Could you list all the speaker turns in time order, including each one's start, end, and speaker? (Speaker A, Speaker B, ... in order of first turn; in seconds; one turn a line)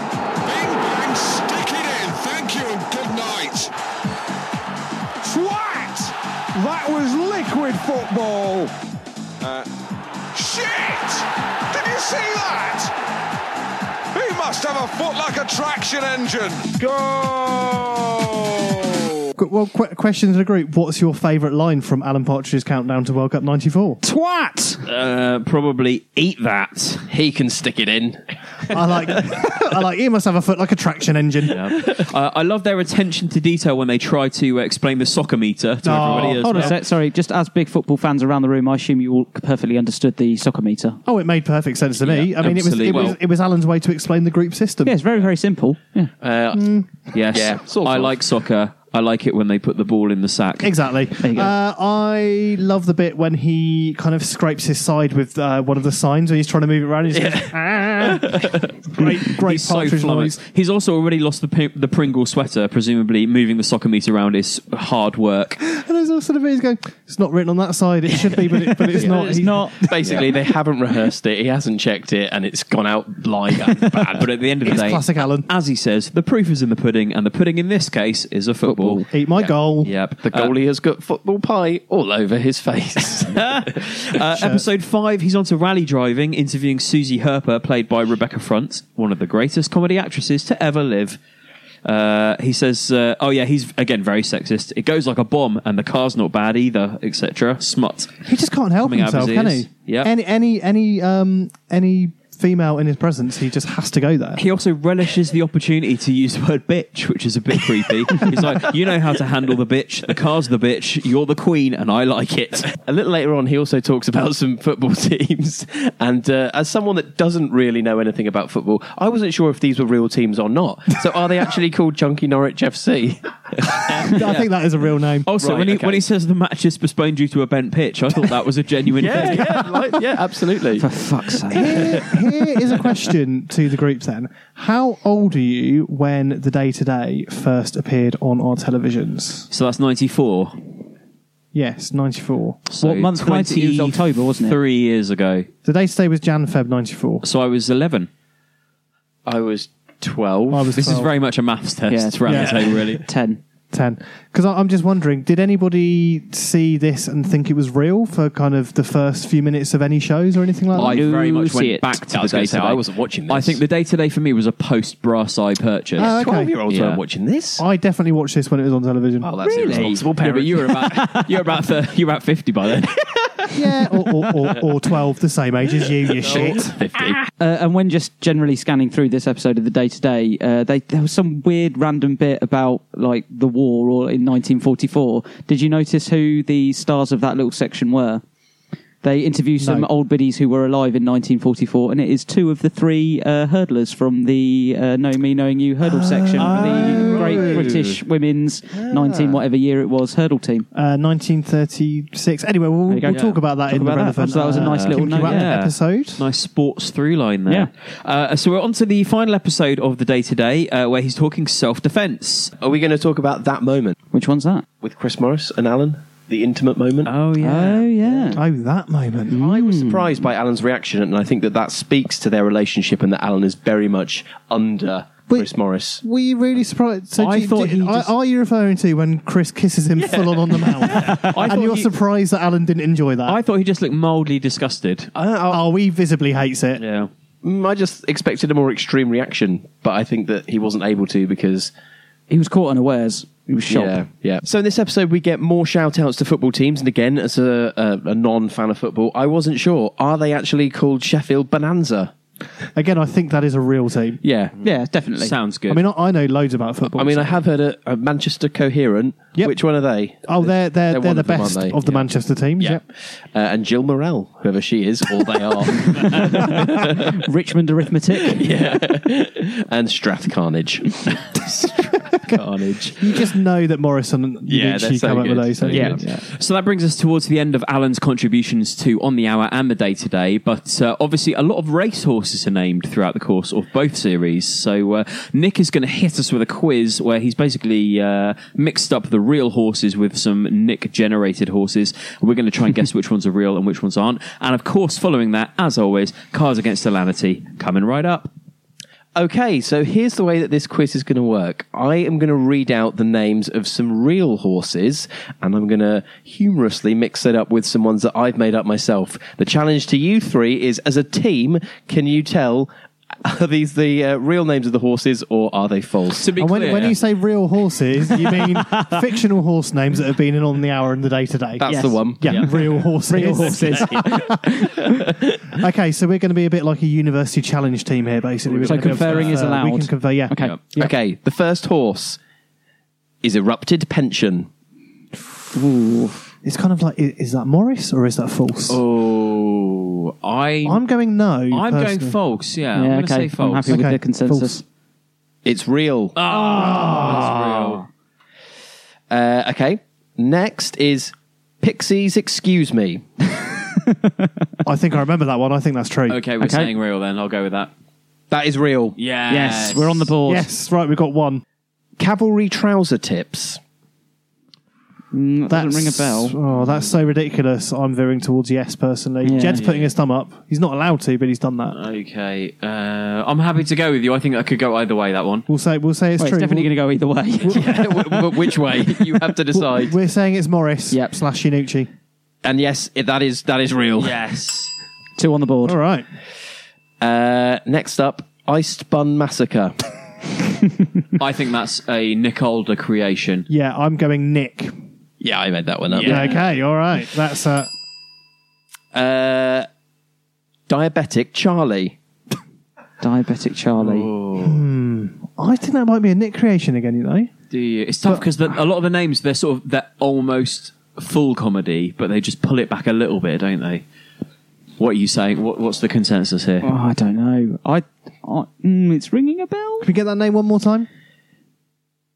Speaker A: 0.4-3.7
Speaker A: 5.2-8.7
Speaker A: 9.4-9.7
Speaker A: 10.3-12.9
Speaker A: 14.1-19.0
Speaker B: 19.4-24.0
Speaker C: 24.0-24.8
Speaker D: 24.8-27.1
Speaker E: 27.1-28.8
Speaker B: 28.7-31.6
Speaker D: 31.5-36.8
Speaker B: 35.8-36.8
Speaker C: 36.1-41.0
Speaker B: 41.0-45.0
Speaker D: 42.0-43.2
Speaker C: 44.9-46.1
Speaker E: 46.2-46.7
Speaker B: 46.5-46.9
Speaker D: 47.1-50.8
Speaker E: 47.3-48.2
Speaker B: 50.6-58.4
Speaker C: 51.2-51.5
Speaker E: 57.1-58.7
Speaker B: 58.9-60.4
Speaker D: 59.3-65.6
Speaker B: 65.6-69.9
Speaker E: 68.1-74.3
Speaker C: 69.0-69.9
Speaker D: 74.2-79.0
Speaker B: 74.7-75.5
Speaker C: 78.6-79.0
Speaker B: 79.1-79.9
Speaker D: 79.8-80.5
Speaker E: 80.2-83.6
Speaker D: 83.3-91.2
Speaker B: 84.3-84.6
Speaker D: 91.8-98.2
Speaker B: 98.3-104.4
Speaker D: 98.8-100.1
Speaker D: 104.4-112.7
Speaker E: 112.8-124.0
Speaker D: 124.0-124.5
Speaker B: 124.0-125.3
Speaker D: 125.2-129.8
Speaker E: 125.4-126.1
Speaker E: 129.0-130.9
Speaker C: 130.8-132.1
Speaker B: 131.5-139.5
Speaker E: 131.6-132.0
Speaker D: 139.5-140.7
Speaker B: 141.5-142.6
Speaker D: 142.7-145.5
Speaker C: 142.8-144.6
Speaker B: 145.7-147.2
Speaker D: 147.2-148.1
Speaker E: 149.2-150.8
Speaker B: 150.5-151.1
Speaker D: 150.7-153.0
Speaker C: 151.9-153.4
Speaker B: 152.3-152.6
Speaker E: 152.3-152.6
Speaker B: 153.7-161.0
Speaker D: 160.7-166.2
Speaker C: 160.8-161.7
Speaker E: 161.0-163.6
Speaker E: 166.0-167.6
Speaker B: 166.0-166.6
Speaker D: 166.7-167.0
Speaker B: 167.6-169.9
Speaker E: 169.2-171.0
Speaker C: 169.4-170.0
Speaker D: 169.6-173.4
Speaker B: 173.5-176.8
Speaker E: 176.1-177.2
Speaker C: 177.4-188.2
Speaker C: 189.0-200.7
Speaker B: 189.6-189.9
Speaker B: 195.8-197.7
Speaker E: 196.4-197.7
Speaker D: 197.5-198.0
Speaker E: 198.7-199.4
Speaker B: 200.7-206.2
Speaker C: 202.9-205.6
Speaker D: 203.1-203.4
Speaker D: 204.4-212.5
Speaker E: 212.6-213.9
Speaker C: 214.1-214.7
Speaker E: 214.8-217.1
Speaker D: 217.1-217.9
Speaker C: 217.4-218.4
Speaker E: 218.1-218.3
Speaker B: 218.3-219.4
Speaker E: 219.3-226.0
Speaker C: 219.3-220.2
Speaker B: 225.3-233.4
Speaker D: 227.2-228.1
Speaker E: 230.0-231.3
Speaker D: 230.8-231.9
Speaker D: 233.2-235.1
Speaker E: 235.2-235.6
Speaker B: 235.5-236.8
Speaker D: 236.8-237.1
Speaker E: 237.4-241.7
Speaker C: 242.3-244.1
Speaker E: 243.7-252.1
Speaker B: 252.8-254.2
Speaker E: 254.2-254.6
Speaker C: 254.6-255.4
Speaker D: 254.6-255.8
Speaker B: 255.7-257.4
Speaker E: 256.9-261.8
Speaker B: 259.4-262.8
Speaker E: 262.6-267.1
Speaker C: 266.1-268.5
Speaker E: 268.2-271.3
Speaker E: 272.3-273.2
Speaker B: 273.0-276.2
Speaker E: 274.5-276.0
Speaker D: 275.7-298.3
Speaker E: 299.2-312.7
Speaker E: 313.2-316.3
Speaker D: 316.1-317.0
Speaker B: 316.4-324.4
Speaker E: 321.6-322.5
Speaker C: 321.6-322.5
Speaker D: 322.3-322.5
Speaker C: 323.0-324.8
Speaker E: 323.4-324.4
Speaker E: 324.9-325.5
Speaker B: 325.6-330.4
Speaker E: 328.6-329.2
Speaker C: 328.6-330.9
Speaker D: 328.7-329.3
Speaker E: 330.7-332.2
Speaker E: 333.2-334.5
Speaker C: 335.5-336.3
Speaker B: 336.4-338.8
Speaker D: 338.7-340.8
Speaker B: 340.6-342.2
Speaker D: 341.5-343.8
Speaker C: 342.8-344.6
Speaker B: 343.7-344.6
Speaker E: 345.4-346.2
Speaker D: 346.2-347.9
Speaker C: 346.3-347.1
Speaker B: 346.5-347.6
Speaker E: 349.1-353.0
Speaker C: 353.4-354.4
Speaker B: 354.6-356.2
Speaker D: 356.1-357.7
Speaker C: 356.4-356.7
Speaker E: 358.3-359.0
Speaker D: 359.0-360.1
Speaker C: 359.3-360.5
Speaker B: 360.3-361.4
Speaker E: 362.0-363.6
Speaker C: 365.1-366.4
Speaker B: 365.5-371.8
Speaker C: 369.2-369.7
Speaker D: 369.3-369.9
Speaker D: 371.7-375.5
Speaker B: 375.5-376.7
Speaker C: 376.2-379.2
Speaker E: 377.5-379.9
Speaker B: 379.6-381.9
Speaker C: 380.9-381.2
Speaker E: 382.4-384.2
Speaker D: 384.0-384.7
Speaker C: 385.2-385.8
Speaker B: 385.6-386.1
Speaker E: 387.0-389.7
Speaker D: 391.2-393.5
Speaker B: 393.5-394.7
Speaker E: 395.2-396.4
Speaker C: 396.0-396.4
Speaker B: 396.0-397.7
Speaker E: 398.9-399.7
Speaker E: 400.7-402.0
Speaker C: 403.0-404.1
Speaker D: 403.8-404.6
Speaker B: 404.4-407.3
Speaker D: 407.5-413.9
Speaker D: 414.8-416.7
Speaker C: 416.6-419.9
Speaker B: 419.8-420.9